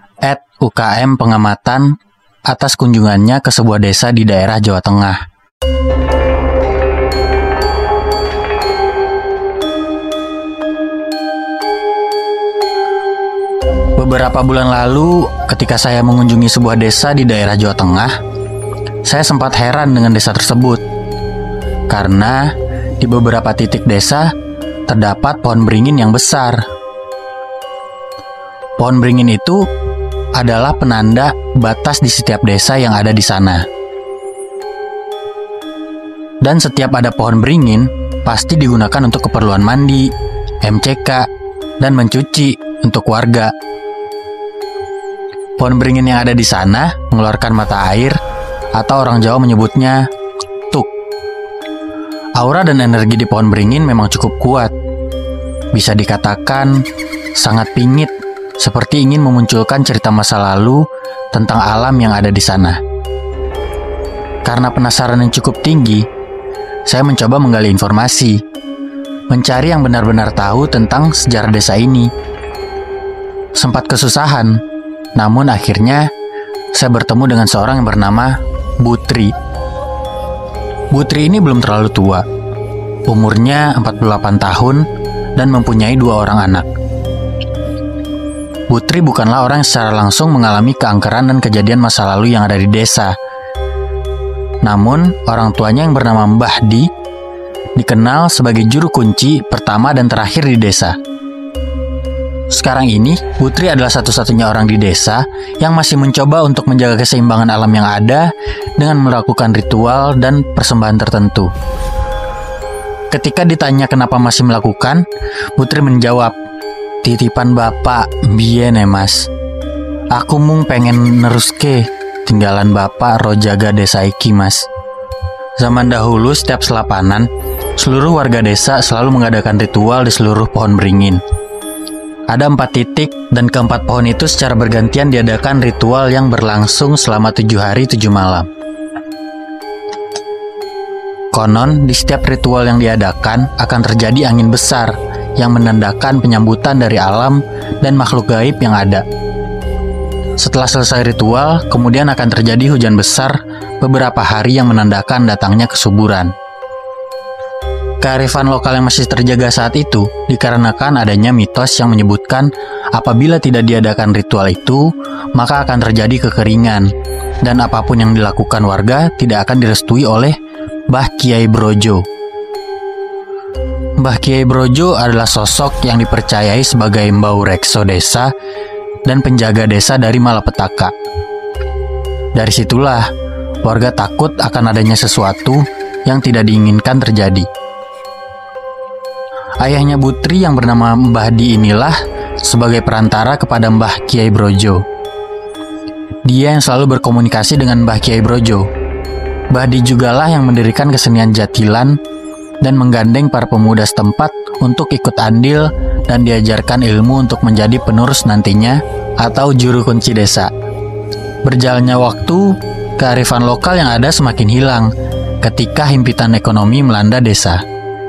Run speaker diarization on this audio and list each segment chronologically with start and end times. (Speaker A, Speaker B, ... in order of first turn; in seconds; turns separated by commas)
Speaker A: 0.2-5.2, Speaker A: 13.9-18.1, Speaker A: 19.0-20.8, Speaker A: 21.9-24.3, Speaker A: 24.9-26.6, Speaker A: 28.8-29.7, Speaker A: 30.3-33.6, Speaker A: 36.4-41.3, Speaker A: 41.8-43.5, Speaker A: 45.6-48.2, Speaker A: 48.7-50.1, Speaker A: 52.4-54.7, Speaker A: 55.7-62.8, Speaker A: 64.4-66.1, Speaker A: 66.8-68.4, Speaker A: 69.3-72.1, Speaker A: 73.5-74.6, Speaker A: 75.1-76.1, Speaker A: 76.7-79.3, Speaker A: 80.9-82.2, Speaker A: 83.1-86.7, Speaker A: 88.7-93.2, Speaker A: 94.6-96.9, Speaker A: 97.8-101.0, Speaker A: 102.5-111.5, Speaker A: 113.1-116.3, Speaker A: 117.0-119.3, Speaker A: 120.1-124.7, Speaker A: 125.6-131.2, Speaker A: 132.3-138.5, Speaker A: 141.3-149.0, Speaker A: 150.4-156.3, Speaker A: 158.0-170.4, Speaker A: 170.9-172.0, Speaker A: 174.0-178.3, Speaker A: 179.0-180.9, Speaker A: 182.3-183.1, Speaker A: 183.6-187.5, Speaker A: 189.6-194.8, Speaker A: 196.2-198.7, Speaker A: 199.5-202.0, Speaker A: 202.6-210.5, Speaker A: 211.4-214.9, Speaker A: 215.4-217.6